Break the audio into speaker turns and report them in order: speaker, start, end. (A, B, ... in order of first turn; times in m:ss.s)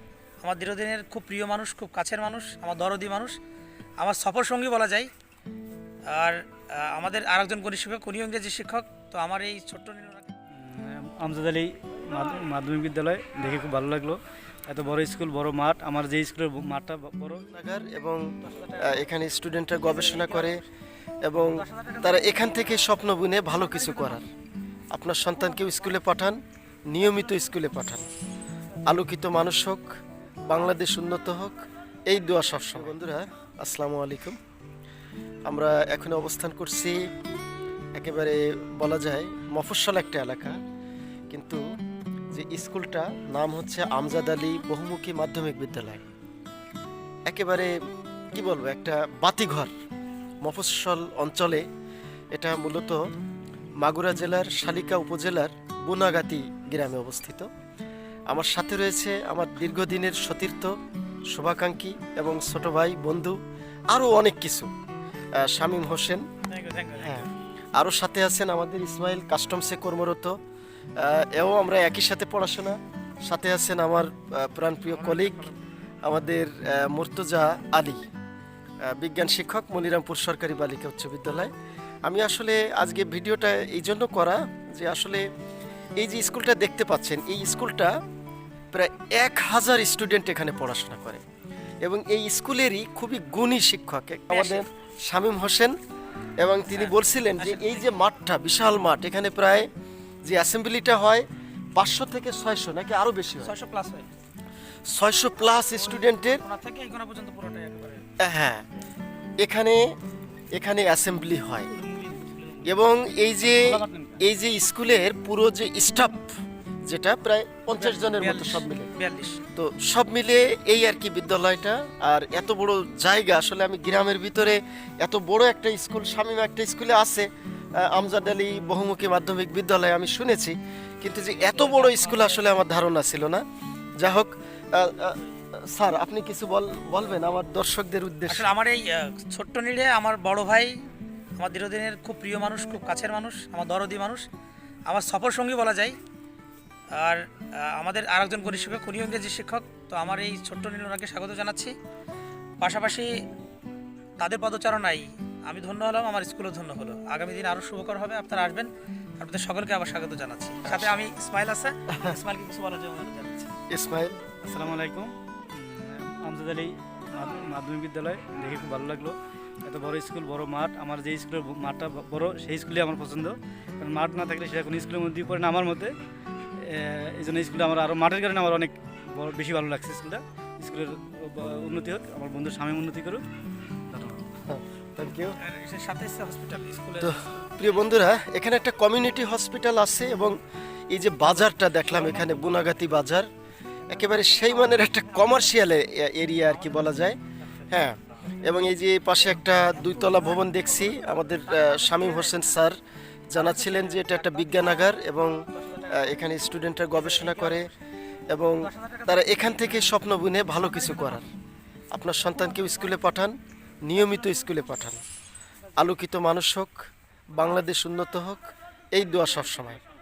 0:00.4-0:03.4 A
0:04.0-0:05.1 A
0:06.0-0:10.3 A
0:10.5-0:17.5 B
0:17.5-0:18.2 C
0:18.4-0:19.1 A
0:18.8-0:20.6 C
0:19.8-0:20.6 A
0:21.2-0:24.2 C
0:21.5-0:22.9 A
0:23.5-0:24.2 A
0:24.9-0:26.4 C
0:26.9-0:28.1 C
0:28.9-0:29.9 C
0:30.4-0:34.4 C
0:35.5-0:37.0 C
0:38.0-0:40.6 C
0:41.3-0:41.6 C
0:42.3-0:46.0 C
0:47.3-0:47.7 C
0:48.3-0:49.7 C
0:50.4-0:51.6 C
0:52.3-0:53.0 C
0:53.8-0:57.5 C
0:58.3-1:00.7 C
1:01.3-1:03.4 C
1:03.9-1:04.7 C
1:05.4-1:06.2 C
1:06.5-1:07.3 A
1:07.0-1:10.4 C
1:11.0-1:15.5 C
1:14.8-1:15.6 A
1:16.0-1:18.0 C
1:18.8-1:21.5 C
1:22.0-1:25.2 C
1:26.0-1:27.9 C
1:28.7-1:31.2 C
1:31.8-1:35.7 C
1:34.3-1:34.6 A
1:36.4-1:39.7 C
1:36.7-1:37.9 A
1:40.2-1:41.2 C
1:41.8-1:43.5 C
1:43.4-1:44.1 A
1:44.9-1:46.4 C
1:45.7-1:48.0 A
1:48.2-1:48.6 C
1:49.4-1:49.8 C
1:50.5-1:51.7 C
1:51.7-1:52.6 B
1:52.6-1:56.3 C
1:53.6-1:54.2 B
1:56.8-1:58.9 C
1:57.7-1:59.4 A
1:59.6-2:13.4 C
2:11.4-2:12.5 A
2:14.0-2:18.5 C
2:18.3-2:20.8 A
2:21.4-2:24.2 A
2:24.9-2:26.0 A
2:26.9-2:31.7 A
2:32.6-2:33.1 A
2:34.2-2:43.5 A
2:40.6-2:41.0 C
2:41.9-2:42.2 C
2:43.7-2:44.2 C
2:44.4-2:55.9 B
2:56.6-3:03.2 B
3:03.9-3:04.2 B
3:04.4-3:05.4 C
3:05.4-3:08.0 A
3:07.0-3:10.4 C
3:10.9-3:13.3 C
3:11.8-3:12.6 A
3:13.9-3:17.2 C
3:13.9-3:15.6 A
3:16.5-3:17.8 A
3:17.7-3:22.8 C
3:19.7-3:22.5 A
3:23.3-3:25.4 C
3:23.4-3:26.1 A
3:25.9-3:27.7 C
3:26.9-3:27.7 A
3:28.3-3:31.3 C
3:28.6-3:30.0 A
3:30.8-3:31.2 A
3:31.9-3:33.3 C
3:33.9-3:35.0 C
3:35.8-3:36.7 C
3:37.3-3:39.8 C